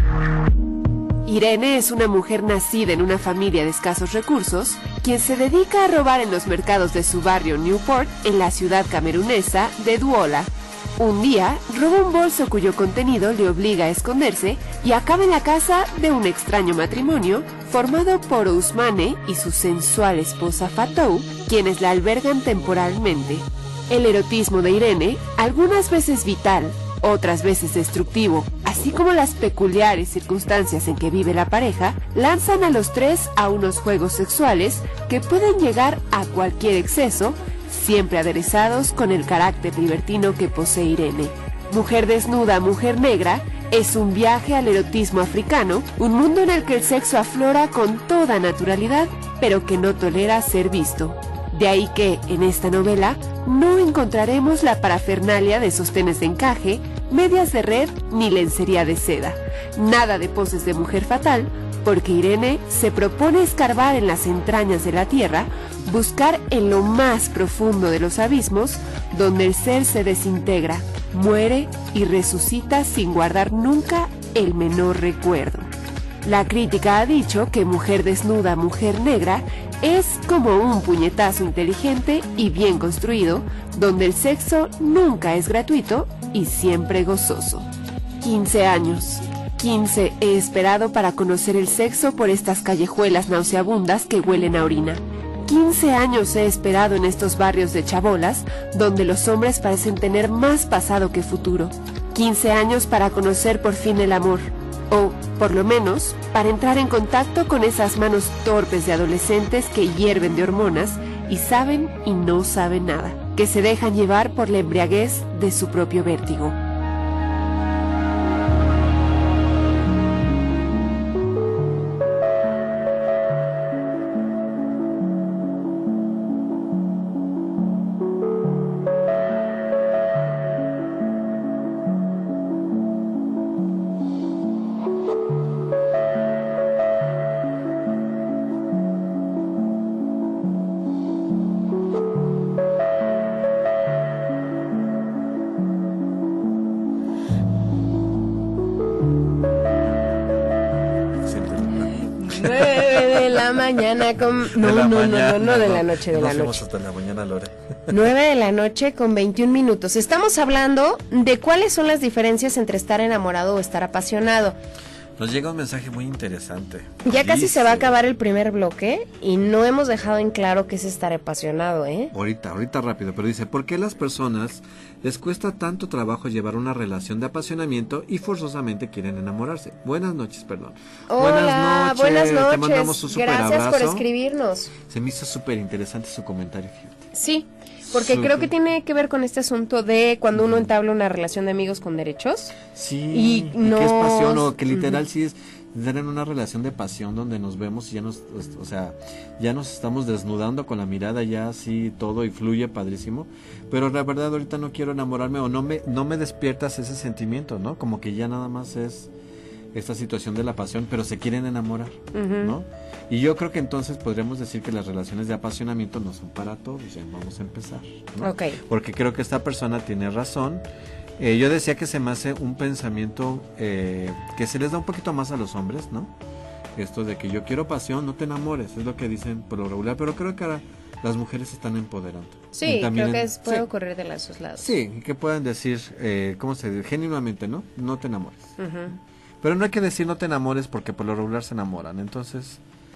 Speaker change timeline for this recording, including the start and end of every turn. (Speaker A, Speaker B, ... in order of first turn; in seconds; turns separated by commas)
Speaker A: 1.2-75.7, Speaker A: 76.2-87.7, Speaker A: 88.2-116.6, Speaker B: 151.2-153.3, Speaker C: 152.2-156.6, Speaker B: 154.5-157.9, Speaker C: 157.9-164.6, Speaker B: 165.2-167.9, Speaker C: 167.1-172.1, Speaker B: 172.1-184.1, Speaker C: 181.1-184.7, Speaker B: 184.9-187.1, Speaker C: 187.1-192.6, Speaker B: 187.9-188.5, Speaker B: 190.4-190.7, Speaker B: 192.7-209.1, Speaker C: 193.1-195.0, Speaker B: 209.7-220.7, Speaker C: 212.1-212.5, Speaker C: 218.2-218.6, Speaker B: 221.2-226.1, Speaker B: 226.8-233.7, Speaker C: 232.5-234.7, Speaker B: 234.6-238.6, Speaker C: 238.6-239.0, Speaker B: 239.4-242.6